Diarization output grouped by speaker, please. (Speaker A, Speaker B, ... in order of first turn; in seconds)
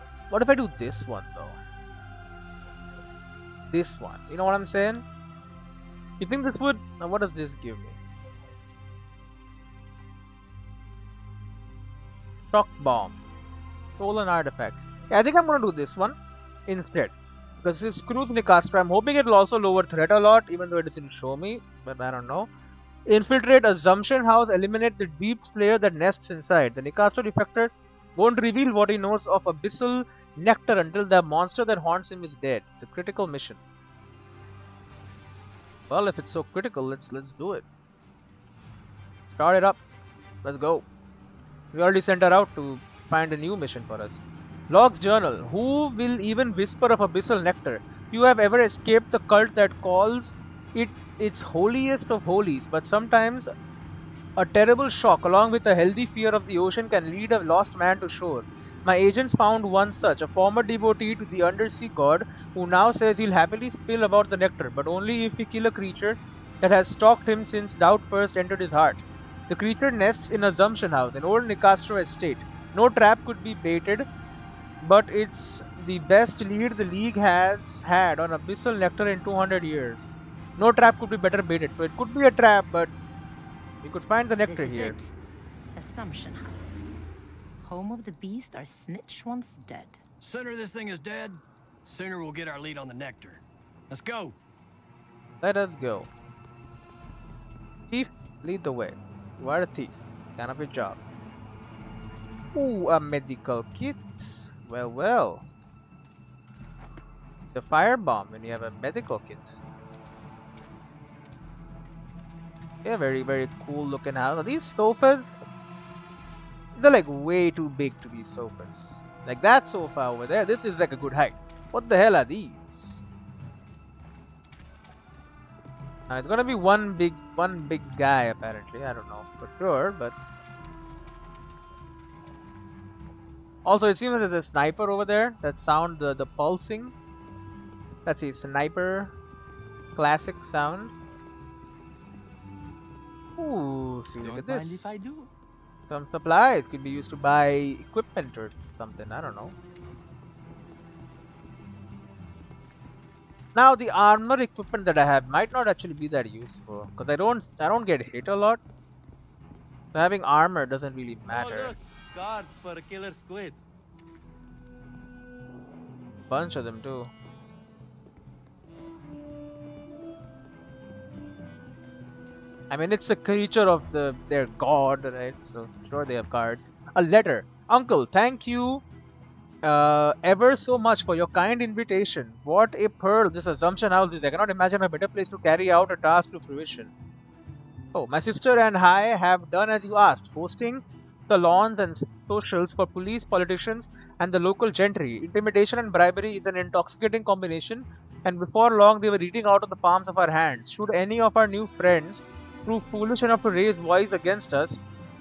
Speaker A: 0.3-1.6, 3.7-5.0, 6.2-8.0, 12.5-13.2, 14.0-16.2, 16.7-22.5, 23.1-33.6, 35.9-37.6, 39.3-39.8, 40.4-40.9, 41.7-53.5, 54.4-74.1, 74.8-82.9, 83.8-85.0, 95.4-96.1, 97.9-101.0, 102.5-105.5, 107.5-109.6, 112.8-115.3, 116.8-123.0, 126.1-130.2, 133.7-136.9, 138.1-139.1, 140.0-140.9, 143.4-144.9, 145.9-149.5, 153.6-158.6, 159.9-161.7, 166.3-167.1, 172.7-178.8, 179.6-186.9, 187.9-204.8
Speaker B: 84.5-85.1, 85.8-86.9, 87.6-90.0
Speaker C: 90.2-94.4
Speaker D: 144.2-145.3, 161.3-163.6